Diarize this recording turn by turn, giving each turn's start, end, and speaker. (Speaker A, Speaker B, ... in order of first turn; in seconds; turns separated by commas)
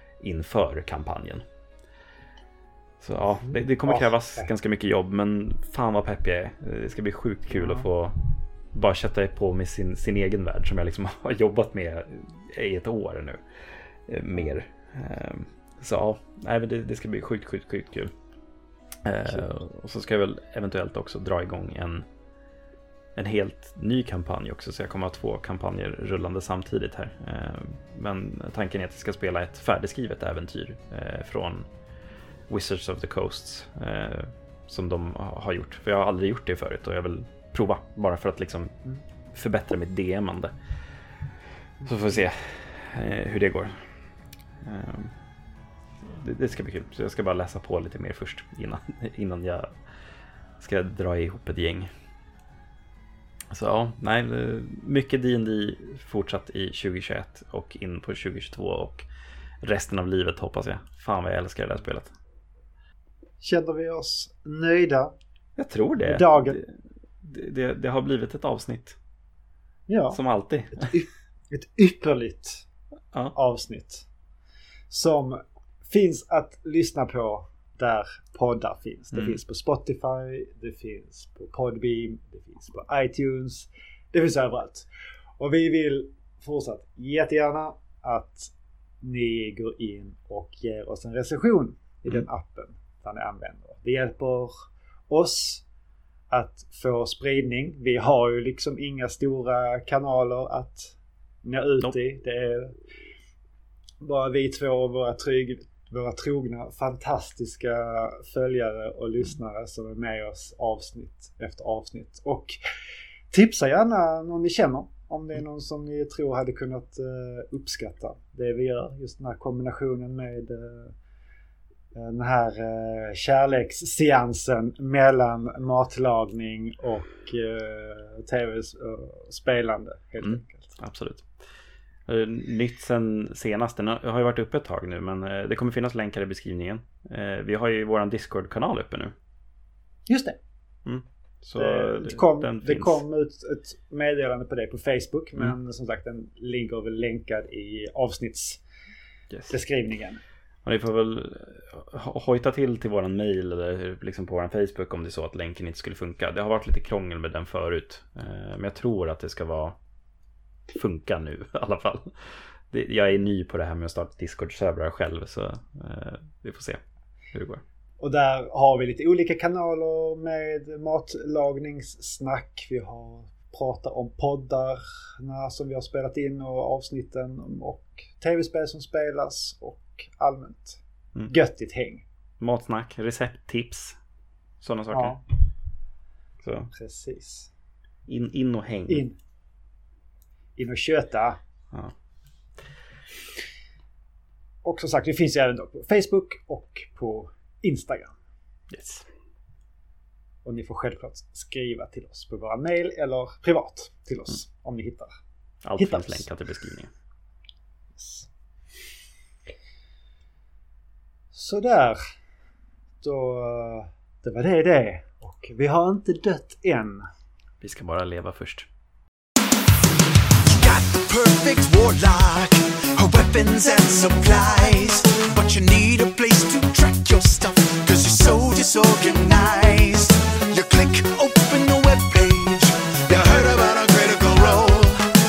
Speaker A: 0.2-1.4, Speaker A: 3.0-13.4, Speaker B: 3.5-4.5, Speaker B: 7.6-7.9, Speaker A: 14.1-18.1, Speaker A: 19.1-22.1, Speaker A: 23.1-31.7, Speaker A: 32.5-38.8, Speaker A: 39.3-40.5, Speaker B: 41.8-42.1, Speaker A: 41.8-43.9, Speaker A: 44.6-45.1, Speaker A: 46.0-49.7, Speaker A: 50.6-51.9, Speaker A: 53.5-59.1, Speaker A: 59.6-62.1, Speaker B: 63.4-65.1, Speaker A: 65.6-69.0, Speaker B: 66.0-66.6, Speaker B: 69.9-70.2, Speaker A: 70.1-71.0, Speaker B: 70.7-72.7, Speaker B: 73.3-74.1, Speaker B: 74.9-84.9, Speaker A: 79.1-79.4, Speaker B: 85.4-94.5, Speaker B: 95.1-95.7, Speaker B: 96.3-102.8, Speaker B: 104.0-112.6, Speaker B: 113.3-121.0, Speaker B: 121.9-130.8, Speaker A: 130.2-131.3, Speaker A: 132.1-139.1, Speaker B: 140.1-140.4, Speaker A: 140.8-143.0, Speaker B: 141.6-148.6, Speaker A: 149.3-149.6, Speaker B: 149.5-150.2, Speaker A: 150.7-159.8, Speaker A: 160.7-162.1, Speaker A: 162.7-166.8, Speaker A: 167.3-167.6, Speaker B: 168.0-182.0, Speaker A: 182.4-184.0, Speaker A: 184.6-185.2, Speaker B: 184.9-185.2, Speaker A: 186.4-186.7, Speaker B: 186.7-187.5, Speaker A: 188.1-189.1, Speaker B: 188.9-189.2, Speaker B: 190.6-191.4, Speaker B: 194.6-198.1, Speaker A: 198.7-199.1, Speaker B: 200.4-205.1, Speaker A: 205.6-206.9, Speaker B: 205.8-206.3, Speaker B: 208.0-208.3, Speaker B: 211.3-212.0, Speaker B: 213.0-217.1, Speaker A: 217.6-218.7, Speaker C: 220.5-235.1